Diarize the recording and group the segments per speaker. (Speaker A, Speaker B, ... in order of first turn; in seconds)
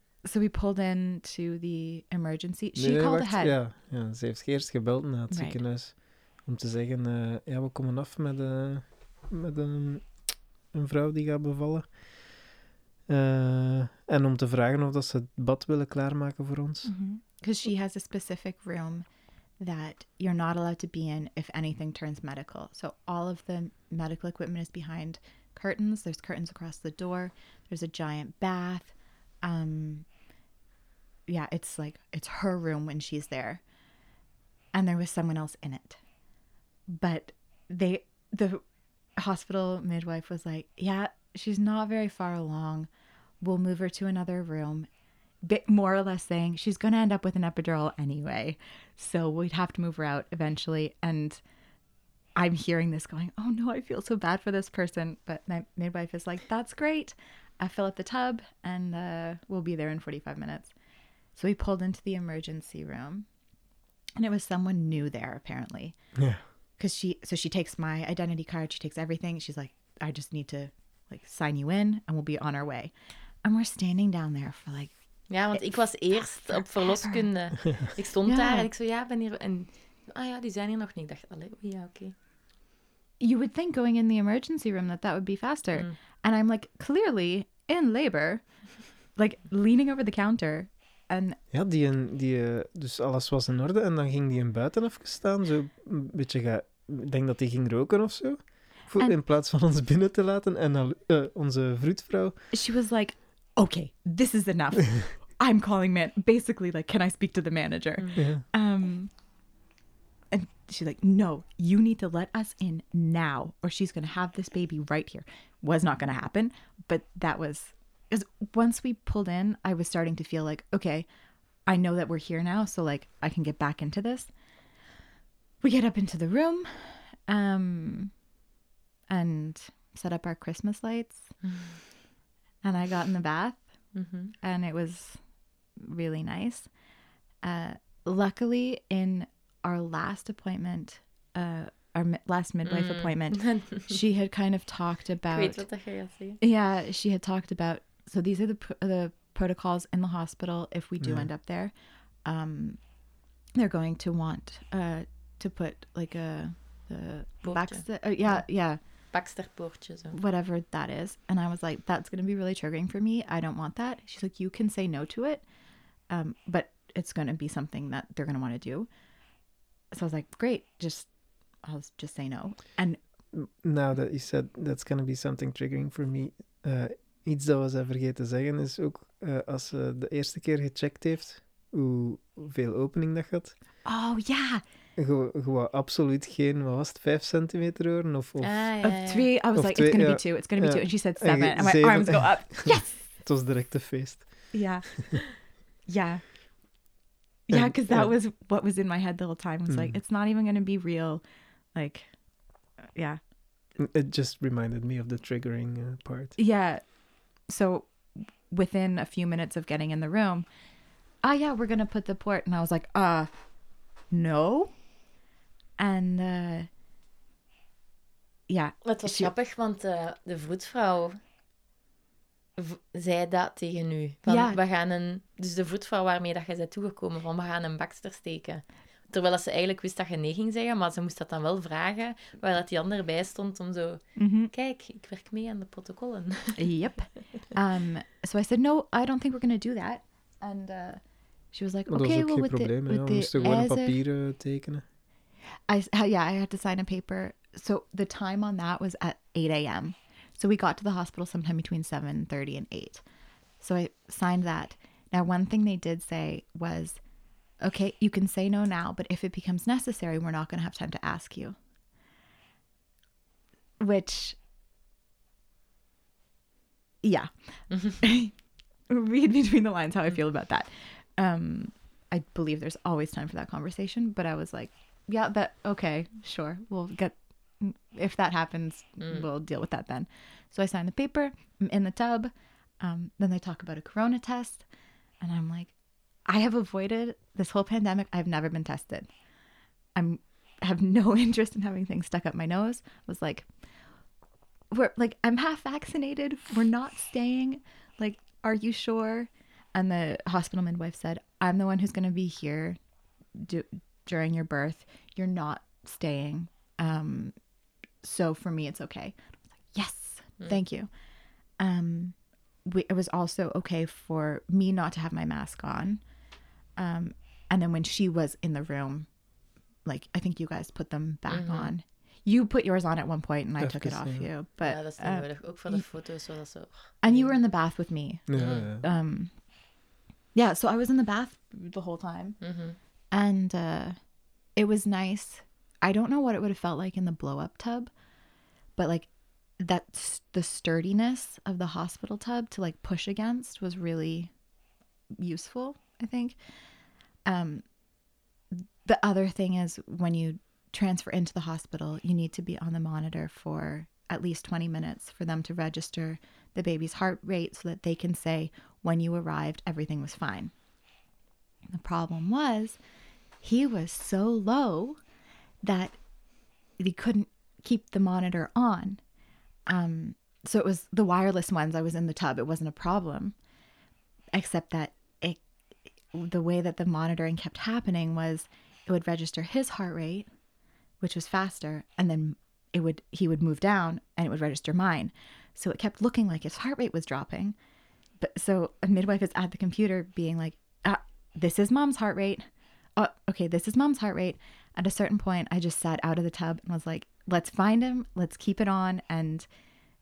Speaker A: 0.2-3.6, 5.3-5.6, 16.9-19.1, 19.6-30.1, 31.3-33.6, 34.7-36.0, 36.9-38.6, 39.2-42.9, 43.4-44.9, 45.5-51.4, 52.4-60.7, 61.4-63.3, 64.2-66.0, 66.8-74.9, 75.5-77.6, 78.3-78.7, 83.2-88.5, 89.1-91.4, 102.5-109.1, 110.3-121.1, 121.7-124.3, 125.6-128.1, 129.1-131.3, 132.6-133.7, 134.3-135.2, 135.8-136.7, 137.4-145.7, 146.4-151.7, 152.2-152.8, 153.6-158.8, 160.1-165.4, 166.1-168.9, 169.9-171.1, 171.6-173.0, 183.8-184.6, 188.8-193.1, 194.5-196.3, 197.5-201.2, 201.8-202.1, 202.8-203.2, 206.4-206.9, 207.4-210.5, 211.2-213.3, 214.1-214.8, 215.8-216.7, 218.5-219.3, 224.2-224.6, 234.2-234.5, 236.6-241.0, 241.5-244.0, 245.7-253.0, 253.6-257.0, 257.6-261.6, 263.8-264.4, 267.0-268.4, 268.9-284.7, 285.2-285.7, 286.3-289.1, 289.9-293.5, 294.7-302.8, 303.4-307.4, 308.0-310.9, 311.6-316.0, 316.8-319.1, 319.9-325.9, 327.0-329.3, 330.4-332.4, 333.1-334.0, 334.6-337.9, 338.8-344.3, 345.2-346.4, 347.3-347.6, 348.5-360.5, 361.7-362.8, 363.4-365.0, 365.6-366.0, 366.8-369.0, 369.7-373.4, 374.3-375.4, 376.1-380.3, 381.0-387.6, 388.2-392.4, 393.0-399.5
Speaker B: 2.8-12.5, 13.1-16.9, 66.2-66.4, 77.7-77.9, 91.5-102.4, 108.2-108.4, 151.0-151.3, 173.3-183.6, 185.0-188.8, 189.5-195.2, 197.5-198.1, 199.7-200.0, 203.8-206.4, 241.9-244.8, 323.6-324.3, 328.3-328.8
Speaker C: 75.3-82.1, 108.0-108.2, 131.4-131.8, 133.9-134.3, 142.7-144.0, 145.3-146.4, 157.4-158.5, 159.1-160.2, 188.4-189.3, 218.8-221.2, 222.6-236.7, 237.2-237.5, 243.4-243.6, 267.7-268.0, 279.0-279.3, 321.3-321.7, 324.6-327.3, 328.4-328.7, 332.4-332.8